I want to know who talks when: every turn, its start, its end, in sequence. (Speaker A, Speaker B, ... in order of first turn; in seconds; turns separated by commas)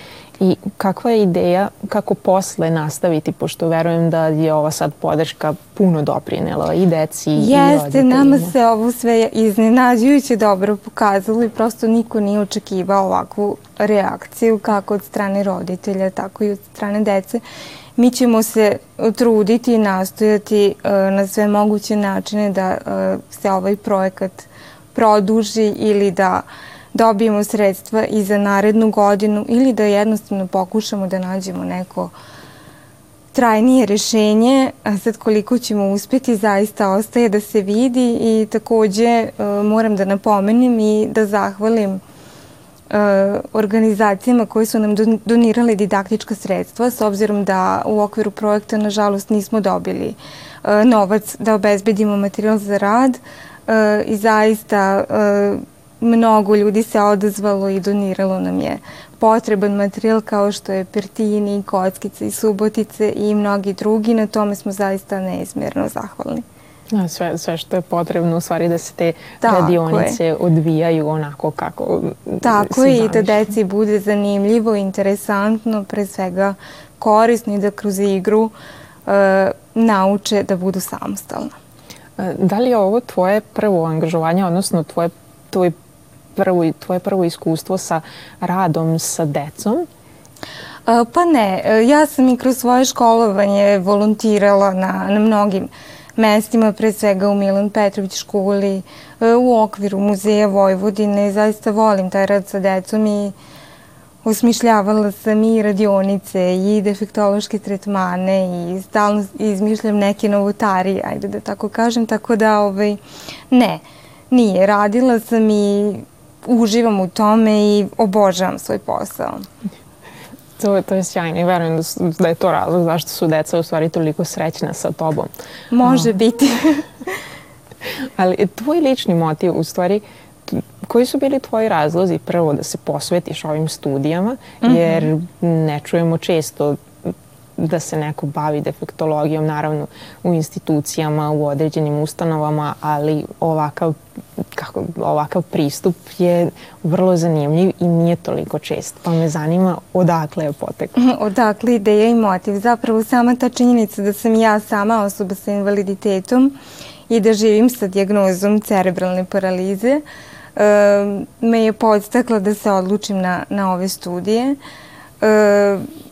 Speaker A: 0.4-8.5, Speaker B: 7.3-17.4, Speaker B: 18.0-32.1, Speaker B: 33.3-42.0, Speaker B: 42.9-66.4, Speaker A: 66.9-73.4, Speaker B: 69.4-70.2, Speaker B: 72.4-78.5, Speaker B: 79.0-81.5, Speaker A: 82.2-85.7, Speaker A: 86.3-89.9, Speaker B: 90.8-103.3, Speaker B: 104.2-119.4, Speaker A: 120.6-125.3, Speaker B: 125.7-126.9, Speaker A: 125.8-126.1, Speaker A: 127.8-151.0, Speaker B: 134.6-135.1, Speaker B: 151.0-156.5, Speaker B: 157.1-160.0, Speaker B: 160.6-164.6, Speaker B: 165.2-165.8